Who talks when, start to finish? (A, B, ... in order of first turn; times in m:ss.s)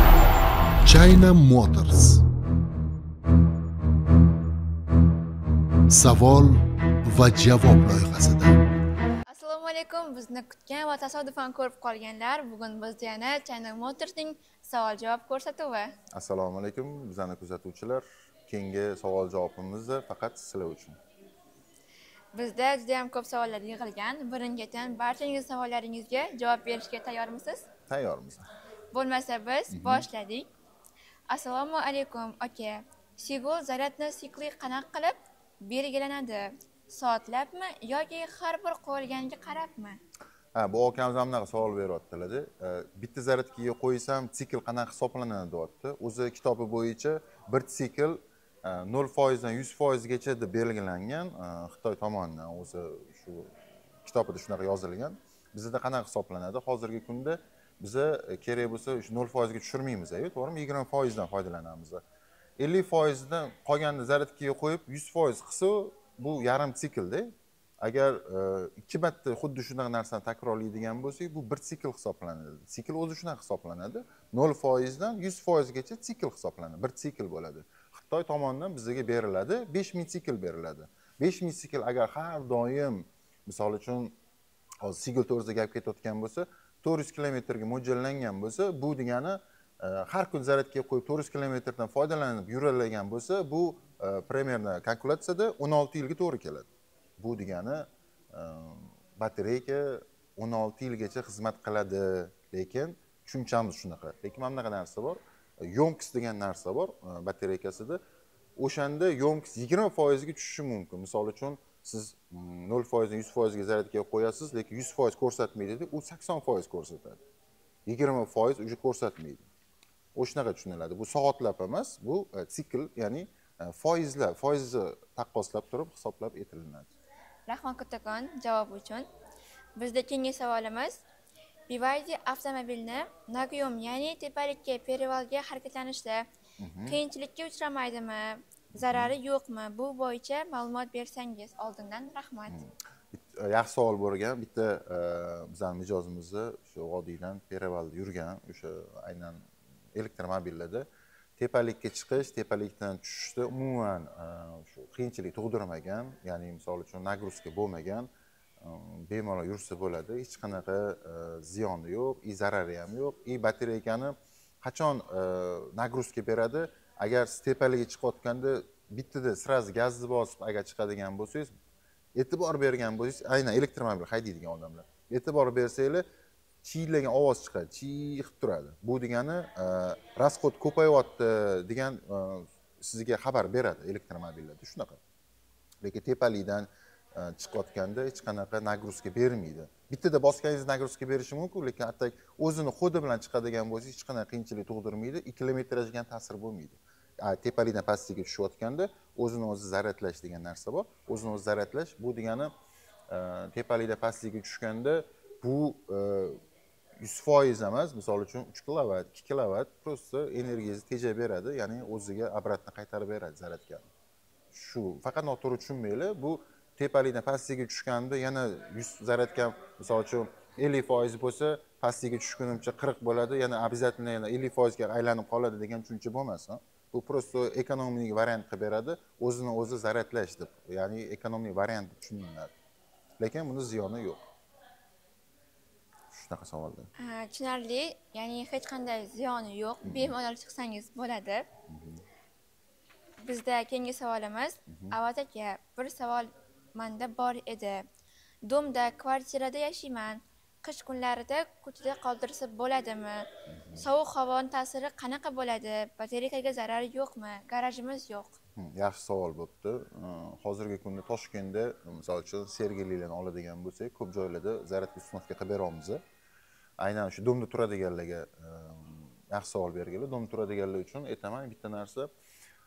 0:00.8-0:02.2 A
0:05.9-0:08.6 A
0:09.3-0:15.9 B
0:16.1-0:21.0 C
0:22.3-0:27.7 B
0:27.9-0:28.4 C
0:28.9-0:30.5 B
0:29.7-0:30.1 C
0:31.3-0:40.0 B
0:40.5-0:53.5 C
0:54.0-1:02.0 C
1:02.6-1:24.1 C
1:24.8-1:36.7 C
1:37.2-1:48.0 C
1:48.6-1:57.2 C
1:57.8-1:59.5 C
2:00.1-2:06.9 C
2:07.5-2:09.1 B
2:09.8-2:11.0 B
2:11.7-2:16.2 B
2:16.6-2:17.0 C
2:16.8-2:22.6 B
2:18.8-2:19.1 C
2:22.5-2:38.1 C
2:38.6-2:51.5 C
2:52.1-2:56.0 C
2:56.6-3:05.0 C
3:05.8-3:22.5 C
3:23.1-3:26.4 C
3:27.0-3:33.9 C
3:34.5-3:52.5 C
3:53.2-3:54.2 C
3:56.1-3:56.9 C
3:57.0-4:01.4 B
3:59.8-4:00.1 C
4:01.7-4:02.0 C
4:03.2-4:07.8 B
4:04.7-4:05.0 C
4:08.4-4:18.4 B
4:13.5-4:13.8 C
4:18.6-4:26.0 C
4:26.8-4:32.1 C